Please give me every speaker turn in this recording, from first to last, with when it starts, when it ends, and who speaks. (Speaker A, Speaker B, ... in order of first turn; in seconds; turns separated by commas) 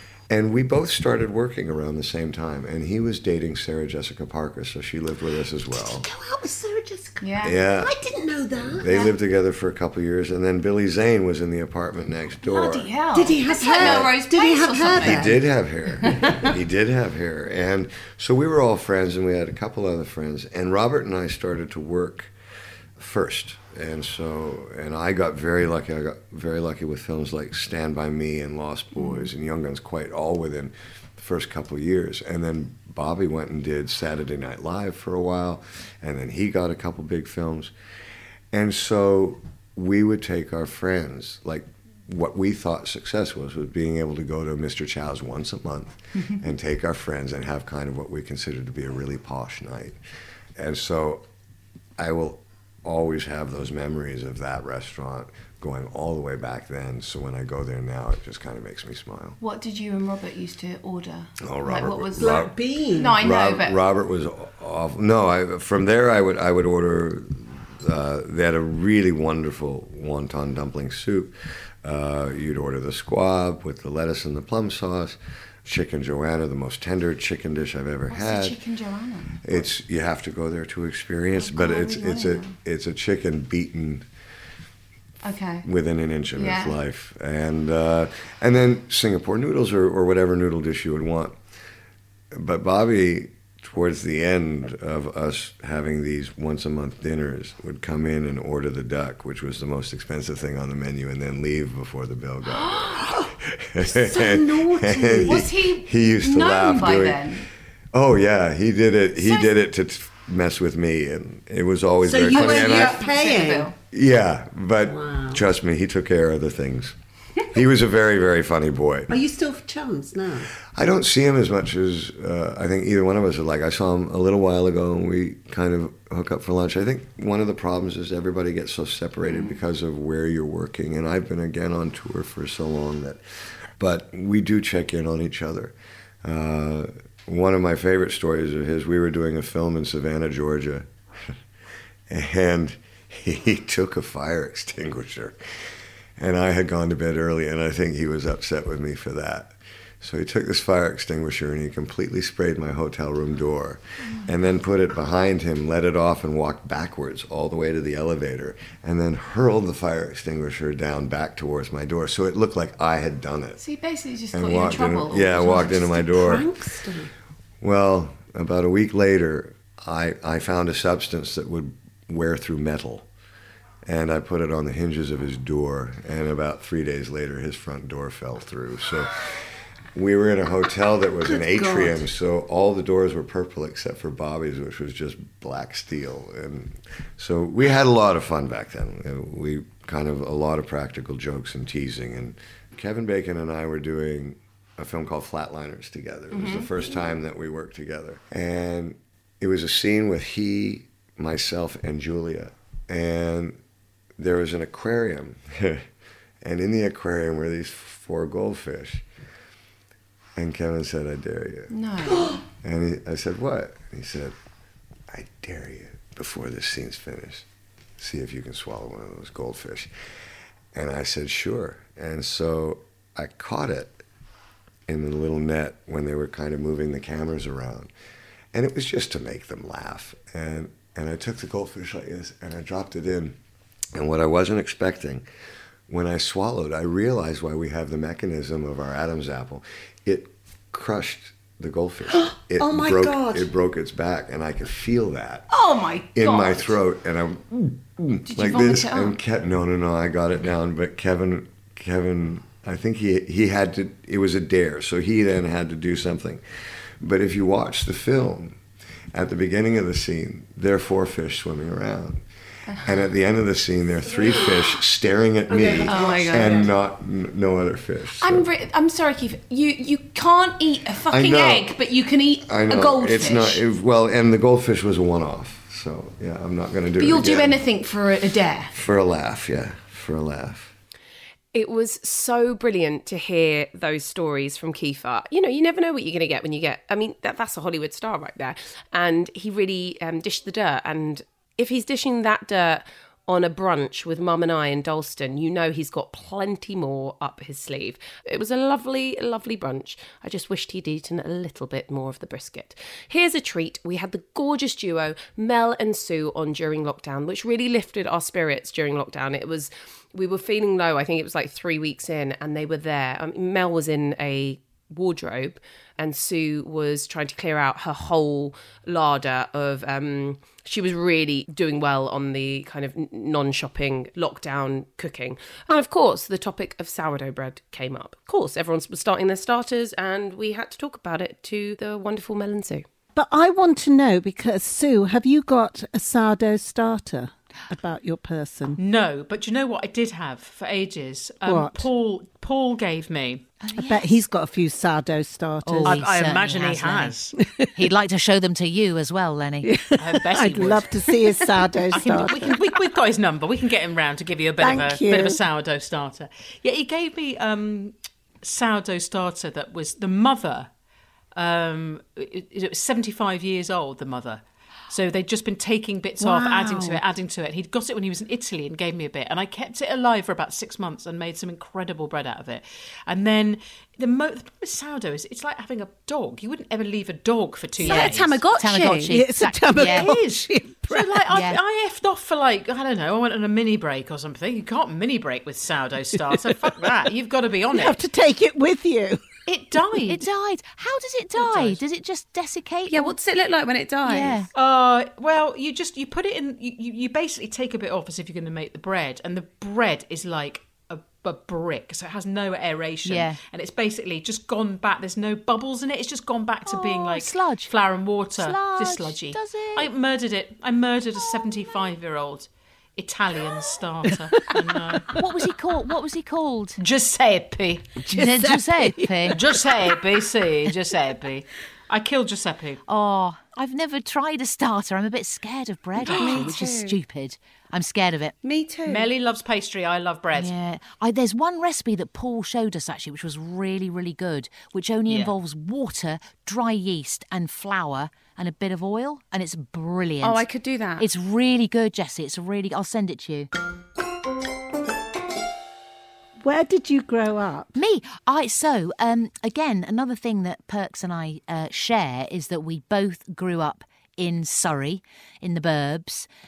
Speaker A: 0.3-6.0, Speaker B: 5.9-9.1, Speaker C: 7.2-7.6, Speaker A: 7.4-7.9, Speaker A: 8.7-12.9, Speaker C: 12.4-15.4, Speaker B: 13.1-15.4, Speaker A: 13.8-14.1, Speaker A: 14.9-22.3, Speaker C: 16.0-16.3, Speaker A: 23.0-37.7, Speaker A: 38.5-50.0, Speaker A: 50.6-51.3, Speaker A: 52.0-59.4, Speaker C: 59.4-63.8, Speaker A: 61.4-62.5, Speaker B: 62.2-63.2, Speaker A: 63.2-78.6, Speaker C: 78.1-79.4, Speaker A: 79.4-84.1, Speaker C: 81.3-82.5, Speaker C: 85.2-85.7, Speaker A: 85.6-91.4, Speaker C: 86.3-86.7, Speaker A: 92.3-107.4, Speaker C: 102.5-103.0, Speaker B: 103.8-105.5, Speaker C: 105.2-107.5, Speaker A: 107.9-113.0, Speaker B: 112.1-113.7, Speaker C: 112.3-113.7, Speaker A: 113.9-117.0, Speaker A: 117.5-119.1, Speaker B: 119.1-120.5, Speaker A: 120.7-133.2, Speaker A: 133.8-141.3, Speaker A: 142.1-145.4, Speaker A: 146.2-163.6, Speaker C: 163.6-166.4, Speaker A: 164.3-166.4, Speaker B: 166.2-167.1, Speaker A: 167.6-173.1, Speaker A: 173.9-179.4, Speaker A: 179.9-203.6, Speaker B: 181.2-182.0, Speaker C: 196.3-196.9, Speaker A: 204.2-205.9, Speaker A: 206.4-209.0, Speaker A: 210.4-214.3, Speaker C: 211.7-212.4, Speaker A: 215.1-217.5, Speaker A: 218.0-219.9, Speaker A: 220.7-224.0, Speaker A: 224.9-227.9, Speaker A: 228.5-233.4, Speaker A: 233.9-235.2, Speaker A: 235.9-245.5, Speaker B: 242.6-243.5, Speaker C: 245.5-246.8, Speaker A: 246.1-256.4, Speaker C: 248.3-249.2, Speaker A: 257.0-258.6, Speaker A: 259.1-262.2, Speaker C: 262.7-263.0, Speaker A: 262.8-268.5, Speaker B: 264.2-264.4, Speaker B: 265.5-266.7, Speaker C: 265.8-266.7, Speaker C: 268.2-273.6, Speaker A: 271.1-271.7, Speaker A: 272.4-277.6, Speaker C: 277.0-278.8, Speaker A: 278.7-280.7, Speaker D: 281.5-332.9, Speaker B: 333.1-338.8, Speaker E: 338.8-343.5, Speaker B: 341.4-341.9, Speaker F: 343.6-344.1, Speaker B: 343.9-346.1, Speaker F: 345.6-347.2, Speaker E: 345.9-347.4, Speaker F: 347.7-349.7, Speaker B: 349.6-352.6, Speaker E: 350.0-351.2, Speaker E: 351.9-360.7, Speaker B: 354.6-355.4, Speaker E: 361.3-378.4, Speaker F: 366.2-367.0, Speaker C: 377.8-379.2, Speaker F: 377.8-380.1, Speaker B: 379.1-381.4, Speaker E: 379.4-388.0, Speaker F: 381.3-381.6, Speaker B: 387.7-389.2, Speaker E: 389.5-390.3, Speaker F: 390.1-393.1, Speaker E: 391.4-391.8, Speaker C: 392.9-394.5, Speaker F: 394.1-394.5, Speaker E: 394.5-415.2, Speaker F: 403.1-403.4, Speaker F: 406.7-407.7, Speaker F: 408.3-409.9, Speaker F: 415.1-416.8, Speaker E: 416.8-417.9, Speaker F: 418.1-419.4, Speaker B: 418.1-419.6, Speaker E: 419.4-422.8, Speaker F: 422.9-428.4, Speaker C: 426.1-427.0, Speaker E: 426.1-426.4, Speaker C: 428.4-429.1, Speaker E: 428.9-430.5, Speaker F: 430.3-440.5, Speaker E: 435.1-435.3, Speaker C: 440.2-441.1, Speaker F: 441.0-443.5, Speaker B: 446.4-447.7, Speaker F: 447.8-456.3